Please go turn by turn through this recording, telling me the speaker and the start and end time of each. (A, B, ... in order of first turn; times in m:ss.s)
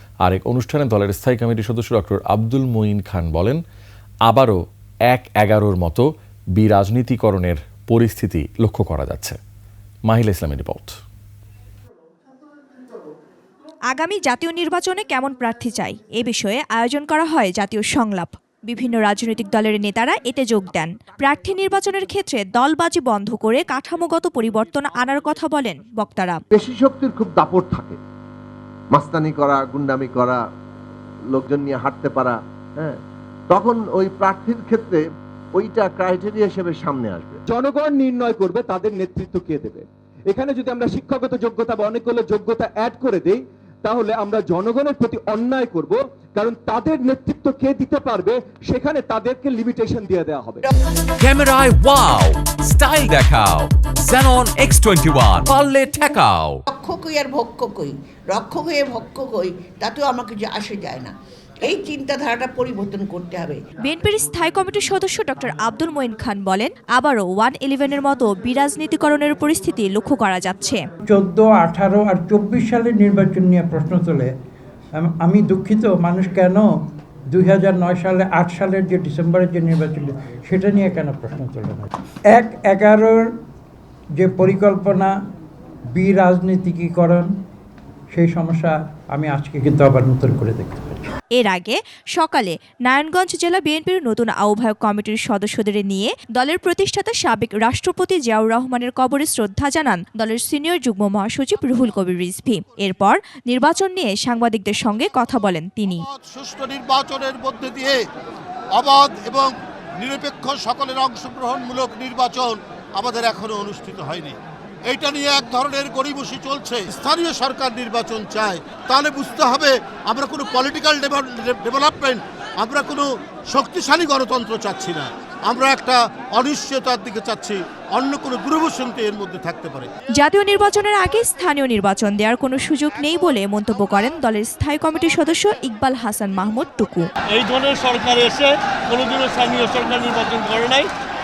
0:00.2-0:03.6 A
0:04.3-0:09.4 A
0:10.0-0:10.9 A
0:13.9-0:26.4 B
0:26.5-0:28.0 C
0:28.9-0:30.4 C
0:31.3-0:35.0 C
0:35.5-0:37.4 C
0:37.5-0:50.6 D
0:51.2-0:56.6 E
0:56.7-1:01.1 F
1:01.6-1:03.6 F
1:03.9-1:10.8 B
1:11.0-1:14.3 G
1:15.0-1:16.6 G
1:17.3-1:23.3 G
1:24.2-1:25.1 G
1:26.0-1:27.3 G
1:28.1-1:31.0 G
1:31.4-1:46.0 B
1:45.8-1:48.0 H
1:48.8-2:09.9 H
2:10.2-2:17.0 B
2:17.3-2:20.9 I